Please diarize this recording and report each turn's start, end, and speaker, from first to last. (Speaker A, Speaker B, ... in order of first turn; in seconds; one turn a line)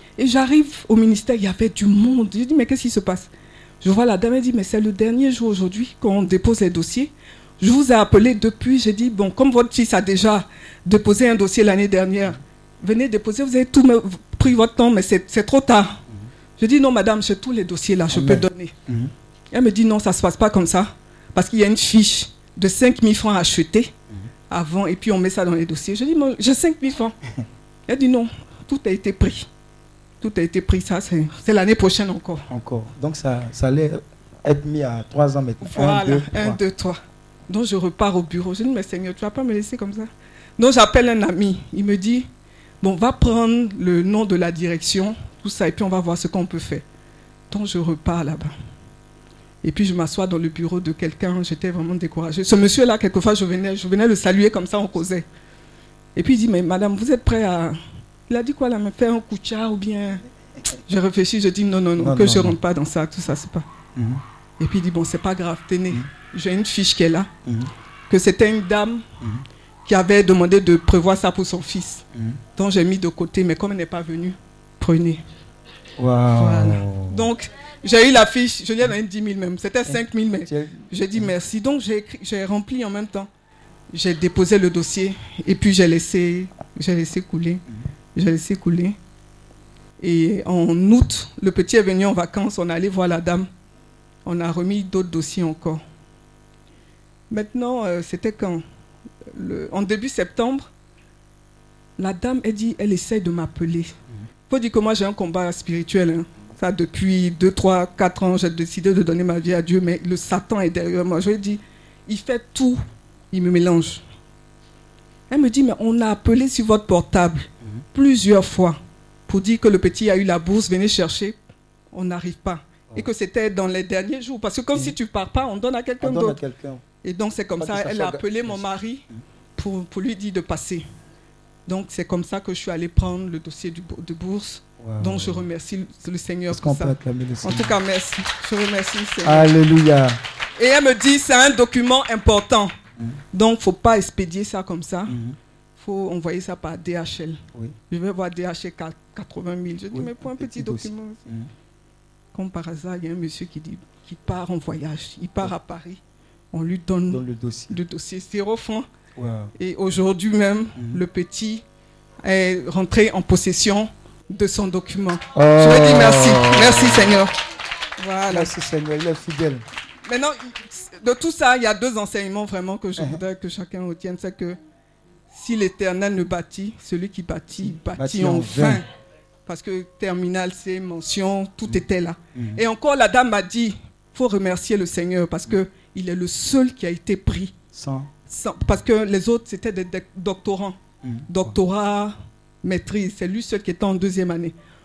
Speaker A: 0.2-3.3
Speaker A: 3.8-16.0
Speaker A: 16.6-18.7
Speaker B: 18.1-19.1
Speaker A: 19.5-23.9
Speaker A: 24.5-27.1
Speaker A: 27.9-29.5
Speaker A: 30.2-32.4
Speaker B: 32.5-36.6
Speaker A: 35.6-42.3
Speaker A: 42.8-46.8
Speaker A: 47.5-48.5
Speaker A: 49.6-55.3
Speaker A: 56.1-57.8
Speaker A: 58.3-60.2
Speaker A: 60.9-63.7
Speaker B: 62.0-62.6
Speaker B: 63.9-64.2
Speaker A: 64.6-67.3
Speaker B: 67.4-67.7
Speaker A: 68.1-69.0
Speaker A: 69.8-75.2
Speaker B: 72.1-72.4
Speaker B: 76.0-77.3
Speaker A: 76.3-83.3
Speaker B: 79.8-81.3
Speaker A: 83.9-87.6
Speaker A: 88.1-89.0
Speaker A: 90.0-93.5
Speaker A: 94.2-95.8
Speaker A: 97.3-98.6
Speaker A: 99.3-100.7
Speaker A: 102.0-103.9
Speaker A: 104.5-112.8
Speaker A: 113.3-114.0
Speaker A: 115.3-121.4
Speaker A: 121.9-126.4
Speaker B: 126.0-126.8
Speaker A: 127.0-129.0
Speaker B: 127.6-128.6
Speaker A: 129.6-130.8
Speaker A: 131.7-139.5
Speaker B: 134.8-135.4
Speaker B: 136.5-137.8
Speaker B: 139.2-140.2
Speaker A: 140.6-142.7
Speaker A: 143.3-145.2
Speaker B: 145.1-145.4
Speaker A: 145.8-151.2
Speaker B: 149.9-151.5
Speaker A: 152.3-156.0
Speaker A: 156.5-158.9
Speaker B: 157.1-157.8
Speaker B: 159.2-159.5
Speaker A: 159.6-161.6
Speaker B: 160.8-161.0
Speaker A: 162.2-167.3
Speaker B: 165.3-167.2
Speaker A: 168.0-168.5
Speaker B: 168.3-169.6
Speaker A: 170.1-174.6
Speaker B: 173.0-173.2
Speaker A: 175.3-178.9
Speaker B: 177.6-178.8
Speaker A: 179.4-187.5
Speaker B: 182.3-182.6
Speaker B: 187.7-188.1
Speaker A: 188.3-194.6
Speaker B: 191.0-191.5